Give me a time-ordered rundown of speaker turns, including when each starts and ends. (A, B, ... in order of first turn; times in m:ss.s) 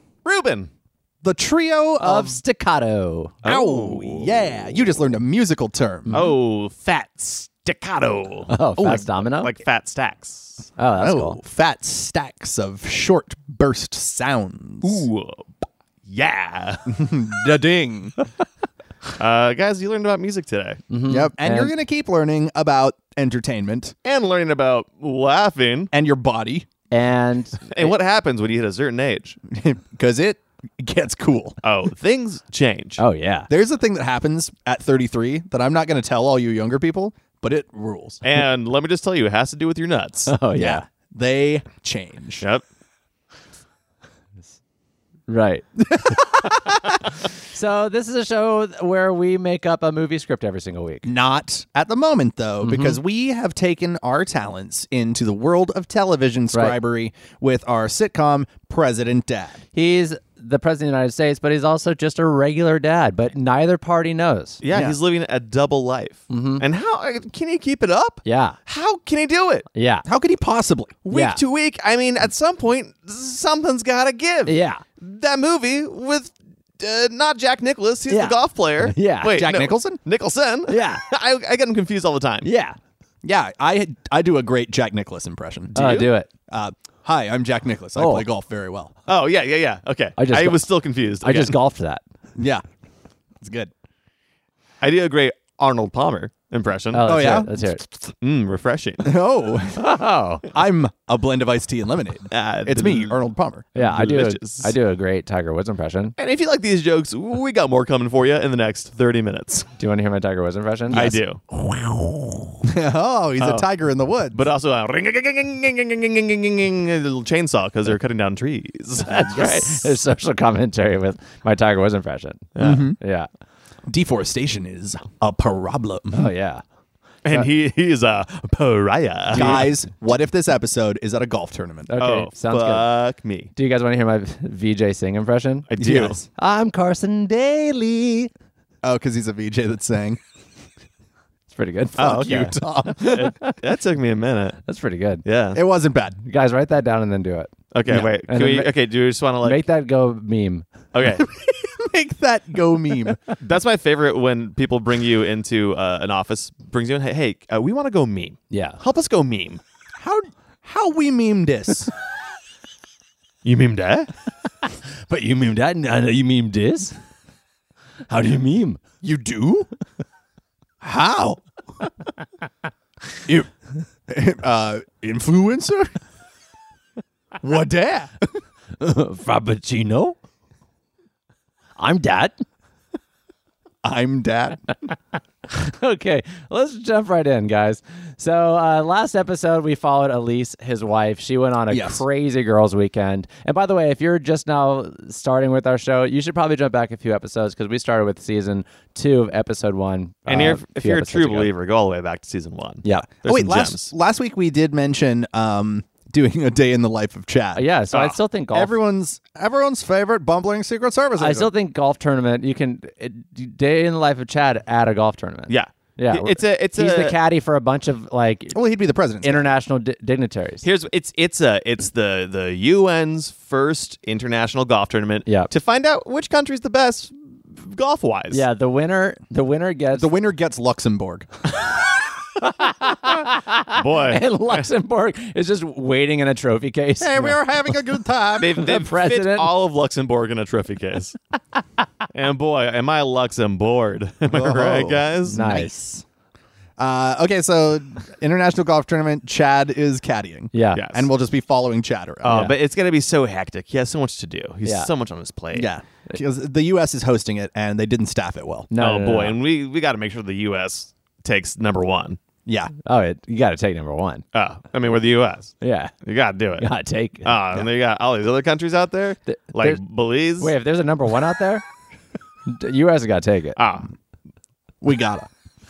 0:00.2-0:00.7 A
0:01.2-0:02.4 B
0:02.0-0:03.4 C
0:03.4-0:04.6 A
0:03.4-0:06.2 B
0:06.1-0:06.4 C
0:06.1-0:08.5 A
0:08.5-0:09.5 C
0:08.8-0:09.0 B
0:09.2-0:10.6 A
0:10.8-0:11.4 C
0:11.0-0:15.1 B
0:14.8-0:15.5 A
0:16.1-0:17.0 A
0:16.9-0:18.2 B
0:19.2-0:20.8 A
0:20.9-0:21.7 C
0:21.1-0:24.0 B
0:24.0-0:25.9 A
0:25.9-0:26.7 B
0:26.9-0:27.9 C
0:27.7-0:29.4 A
0:29.5-0:31.6 B
0:31.6-0:33.0 A
0:33.0-0:33.5 C
0:33.5-0:38.2 B
0:38.2-0:40.3 A
0:40.3-0:40.8 C
0:40.6-0:42.4 B
0:45.3-0:45.6 C
0:45.9-0:46.8 B
0:47.2-0:51.1 C
0:51.0-0:59.6 B
0:52.6-0:53.0 C
0:56.5-0:56.8 C
0:59.7-1:04.6 C
1:04.6-1:09.7 A
1:04.7-1:05.0 B
1:06.3-1:06.6 C
1:08.3-1:08.6 C
1:09.7-1:10.1 C
1:10.1-1:11.0 B
1:11.0-1:22.5 A
1:11.1-1:11.4 C
1:14.5-1:14.8 C
1:18.1-1:19.4 C
1:19.3-1:20.0 B
1:20.7-1:21.0 C
1:22.4-1:22.8 C
1:23.2-1:25.8 B
1:25.7-1:26.1 A
1:25.8-1:26.3 C
1:26.5-1:28.9 B
1:28.0-1:28.3 C
1:29.1-1:31.6 A
1:30.2-1:30.6 C
1:31.2-1:32.0 C
1:32.4-1:32.6 B
1:33.4-1:33.7 B
1:34.8-1:37.2 A
1:36.9-1:37.8 C
1:37.0-1:37.5 B
1:38.2-1:39.1 A
1:39.0-1:39.9 B
1:39.8-1:40.5 C
1:40.5-1:43.7 B
1:42.3-1:43.2 A
1:43.8-1:46.1 C
1:43.8-1:44.7 A
1:46.2-1:49.7 A
1:49.8-1:52.4 C
1:50.9-1:51.4 A
1:52.6-1:54.4 B
1:53.4-1:53.7 A
1:54.3-1:59.9 A
1:59.0-2:03.3 C
2:02.6-2:02.9 A
2:02.6-2:03.0 B
2:03.9-2:06.3 B
2:06.1-2:06.6 C
2:07.2-2:09.7 A
2:09.3-2:11.9 B
2:11.9-2:12.9 C
2:12.0-2:13.5 A
2:13.6-2:15.7 C
2:15.7-2:16.2 A
2:15.8-2:16.3 B
2:16.4-2:18.3 C
2:18.8-2:20.2 B
2:21.5-2:22.6 C
2:22.0-2:23.4 B
2:22.0-2:22.5 A
2:23.0-2:24.6 A
2:24.7-2:25.2 C
2:25.2-2:25.6 A
2:25.5-2:26.2 B
2:26.2-2:28.7 C
2:27.7-2:29.6 A
2:29.4-2:30.7 C
2:30.9-2:31.3 A
2:31.2-2:33.2 B
2:33.4-2:39.6 A
2:38.5-2:38.8 C
2:40.0-2:41.9 B
2:43.4-2:44.1 A
2:45.1-2:47.0 C
2:48.1-2:48.8 C
2:49.0-2:49.7 B
2:50.8-2:51.4 B
2:54.1-2:55.9 B
2:57.4-2:58.4 B
2:58.8-3:00.2 C
3:01.8-3:02.4 C
3:03.8-3:04.7 B
3:05.5-3:21.5 C
3:11.7-3:12.0 B
3:20.3-3:23.9 A
3:22.8-3:23.1 C
3:23.2-3:27.6 B
3:27.6-3:28.8 C
3:28.5-3:31.5 B
3:31.2-3:38.6 C
3:35.5-3:37.2 A
3:38.5-3:39.5 B
3:39.2-3:40.7 C
3:40.6-3:48.4 A
3:48.3-3:50.1 C
3:50.0-3:51.3 B
3:52.4-3:57.4 C
3:53.7-3:54.7 A
3:57.0-3:58.6 B
3:58.4-4:01.2 A
3:58.5-3:59.5 C
4:02.1-4:05.5 A
4:04.3-4:06.0 B
4:05.3-4:05.7 C
4:06.8-4:12.5 B
4:10.5-4:10.8 C
4:10.8-4:11.1 A
4:12.2-4:15.7 A
4:12.3-4:12.5 C
4:14.6-4:14.9 C
4:15.5-4:18.7 B
4:18.7-4:19.4 C
4:18.8-4:22.2 A
4:22.4-4:22.7 B
4:22.8-4:24.2 C
4:24.3-4:26.7 A
4:25.6-4:25.9 C
4:26.6-4:27.6 C
4:27.2-4:30.5 A
4:29.3-4:29.8 C
4:30.4-4:31.6 C
4:32.5-4:33.6 C
4:33.6-4:33.9 A
4:34.8-4:35.3 B